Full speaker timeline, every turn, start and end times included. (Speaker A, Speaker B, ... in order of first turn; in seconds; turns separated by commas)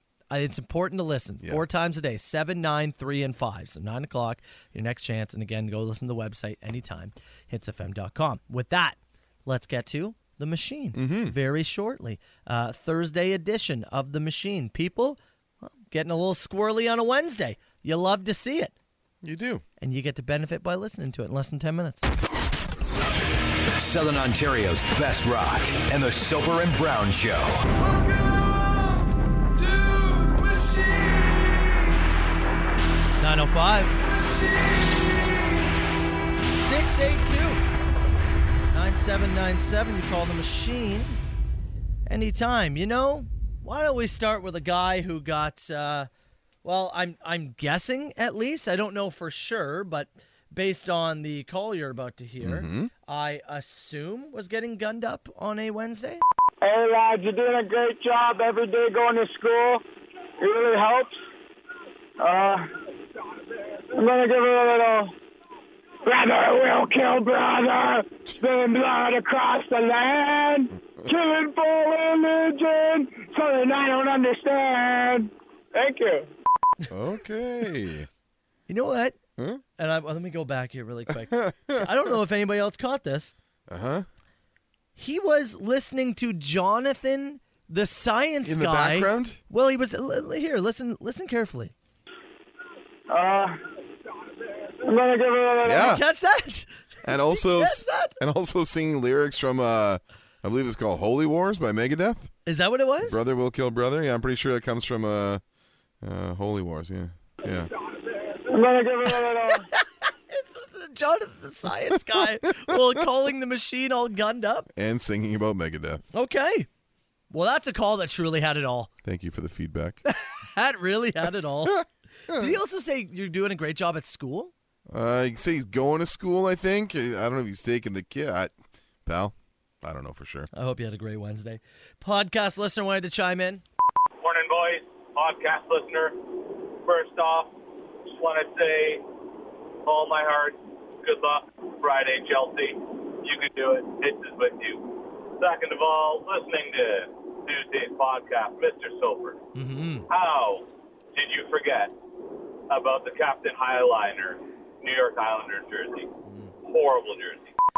Speaker A: 0.3-18.7, Speaker B: 10.9-11.3, Speaker B: 19.2-19.6, Speaker A: 19.8-22.1, Speaker C: 23.8-27.7, Speaker A: 33.2-34.0, Speaker A: 36.4-37.6, Speaker A: 38.7-41.2, Speaker A: 42.1-46.1, Speaker A: 46.6-56.2, Speaker B: 52.4-52.9, Speaker D: 56.6-59.8, Speaker D: 60.4-61.2, Speaker D: 62.2-62.6, Speaker D: 63.9-65.1, Speaker D: 66.0-76.3, Speaker B: 76.9-78.1, Speaker A: 78.7-79.2, Speaker B: 79.4-79.6, Speaker A: 79.8-83.3, Speaker B: 81.1-81.9, Speaker B: 83.7-84.0, Speaker A: 85.0-91.7, Speaker B: 88.4-89.4, Speaker D: 93.1-93.5, Speaker D: 94.8-95.9, Speaker B: 95.6-96.0, Speaker A: 95.6-98.2, Speaker B: 97.0-102.3, Speaker A: 102.5-103.2, Speaker B: 103.0-105.4, Speaker B: 106.0-107.7, Speaker D: 108.2-109.7, Speaker A: 109.5-114.7, Speaker B: 112.1-112.8, Speaker B: 114.7-116.0, Speaker A: 116.1-116.7, Speaker A: 117.3-118.9, Speaker B: 119.0-120.0, Speaker A: 120.0-124.5, Speaker B: 121.7-122.5, Speaker B: 124.9-128.5, Speaker B: 129.0-130.5, Speaker A: 130.5-133.6, Speaker E: 134.2-136.2, Speaker E: 136.8-137.5, Speaker E: 138.1-139.0, Speaker E: 139.8-149.4, Speaker A: 149.5-150.1, Speaker E: 150.1-151.9, Speaker E: 152.7-156.1, Speaker E: 156.6-157.5